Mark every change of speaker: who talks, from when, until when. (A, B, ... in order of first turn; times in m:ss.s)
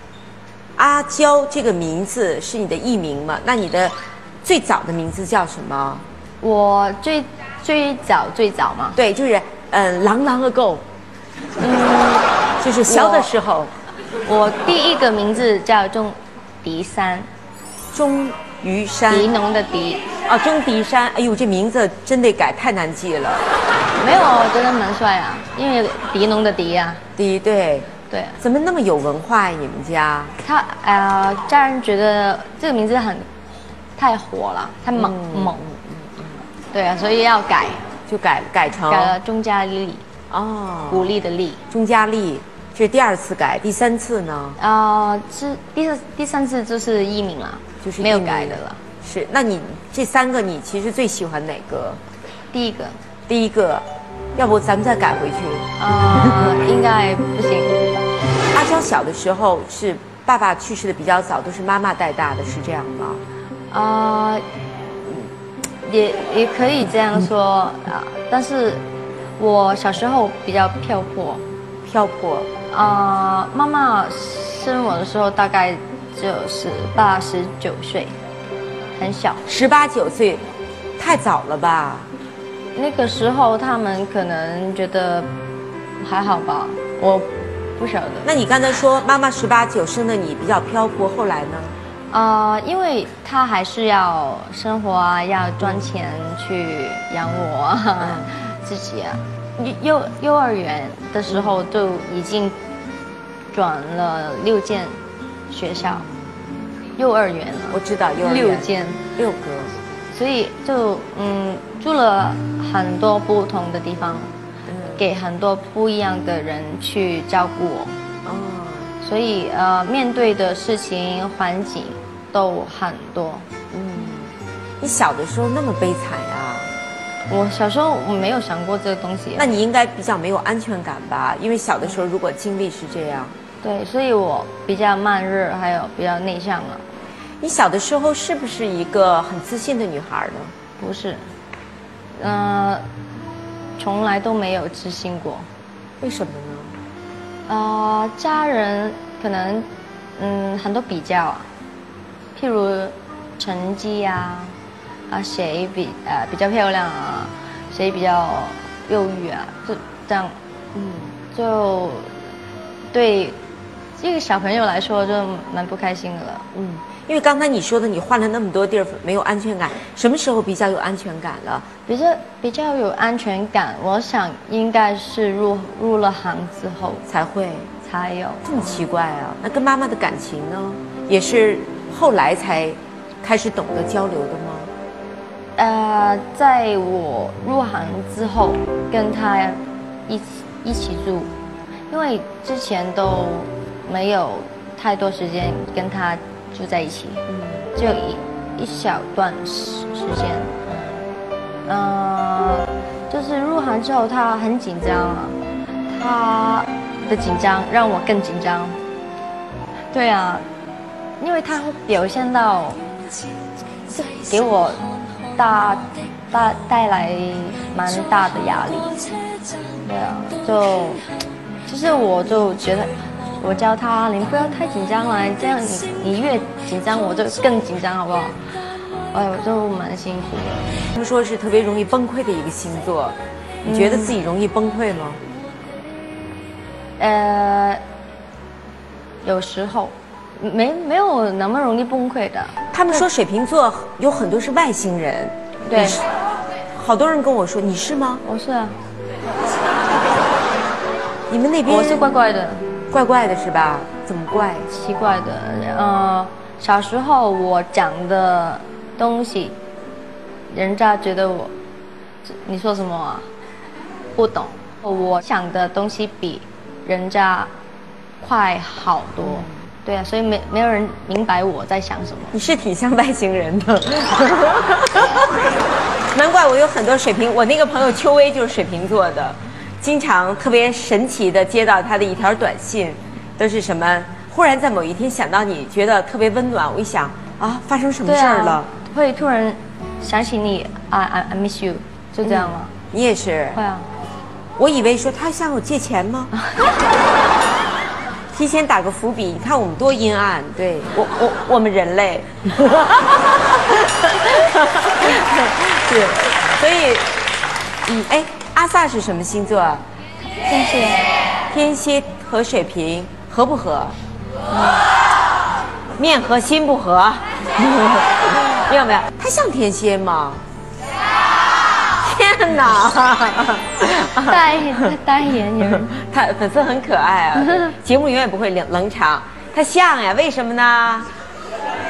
0:00.8-0:06.0 A
0:06.4-0:09.0 B
0:09.0-0:10.8 A
0:11.6-0:13.7 A
0:12.9-0:13.3 B
0:14.3-0:17.3 B
0:17.9-0:19.3 A
0:19.1-0:20.0 B
0:20.3-0:23.4 A
0:24.0-0:27.0 B
0:27.2-0:27.9 A
0:28.1-0:28.4 B
0:28.4-0:30.4 A
0:30.4-0:33.3 B
0:34.0-0:35.6 B
0:35.0-0:36.4 A
0:36.7-0:37.9 B
0:38.1-0:39.2 A
0:38.9-0:40.0 B
0:40.3-0:41.1 A
0:40.9-0:41.6 B
0:41.7-0:44.6 A
0:44.6-0:48.8 B
0:47.8-0:52.0 A
0:52.5-0:53.0 B
0:53.3-0:53.8 A
0:54.4-0:55.7 A
0:55.8-0:57.8 B
0:58.5-1:03.2 A
1:03.7-1:04.4 B
1:05.0-1:05.3 B
1:05.8-1:08.8 B
1:09.4-1:11.4 B
1:11.8-1:12.5 A
1:12.7-1:18.1 B
1:19.0-1:19.4 B
1:19.5-1:20.5 A
1:21.0-1:22.1 A
1:22.8-1:25.3 B
1:26.0-1:28.3 B
1:28.2-1:31.8 A
1:32.1-1:42.6 B
1:43.5-1:45.0 B
1:45.5-1:46.1 B
1:47.0-1:49.0 B
1:47.7-1:49.8 A
1:50.1-1:54.3 B
1:54.7-1:55.0 A
1:55.0-1:57.9 B
1:58.2-1:58.9 A
1:59.0-2:03.5 B
2:03.7-2:06.7 A
2:07.3-2:09.6 B
2:09.4-2:13.4 A
2:13.6-2:16.9 B
2:17.4-2:20.5 A
2:20.8-2:21.3 B
2:22.2-2:22.8 B
2:23.8-2:25.5 B
2:26.0-2:26.8 A
2:27.5-2:31.5 B
2:32.4-2:34.6 B
2:35.1-2:40.4 B
2:40.8-2:41.1 A
2:41.3-2:42.1 B
2:42.9-2:43.4 B
2:44.0-2:46.4 B
2:46.5-2:51.7 A
2:51.9-2:57.0 B
2:57.1-2:57.7 A
2:57.8-2:58.5 B
2:58.4-3:04.7 A
3:05.6-3:11.3 B
3:11.9-3:20.6 B
3:17.3-3:17.7 A
3:20.7-3:21.0 A
3:21.7-3:25.4 B
3:25.9-3:28.8 B
3:29.9-3:30.5 B
3:31.2-3:32.8 B
3:33.9-3:34.8 B
3:35.4-3:39.0 B
3:39.8-3:41.0 B
3:41.7-3:48.4 B
3:49.1-3:50.8 B
3:50.9-3:55.2 A
3:53.6-3:54.2 B
3:57.0-3:57.8 B
3:59.2-4:03.0 B
4:02.7-4:06.0 A
4:05.7-4:06.0 B
4:06.7-4:08.2 A
4:08.2-4:08.8 B
4:11.3-4:12.1 A
4:11.7-4:12.6 B
4:12.9-4:14.7 A
4:14.7-4:19.6 B
4:20.5-4:21.5 B
4:22.2-4:23.3 B
4:24.2-4:27.5 B
4:28.2-4:32.3 B
4:29.2-4:29.6 A
4:32.3-4:35.3 A
4:36.1-4:48.7 A
4:48.0-4:52.7 B
4:52.2-4:53.6 A
4:53.6-4:53.9 B
4:54.6-4:56.3 A
4:58.3-5:07.1 A
5:07.9-5:09.8 A
5:10.4-5:11.0 B
5:11.5-5:14.0 A
5:14.5-5:14.8 B
5:16.0-5:20.4 A
5:22.0-5:24.8 A
5:24.2-5:25.9 B
5:25.9-5:31.1 A
5:27.4-5:27.7 B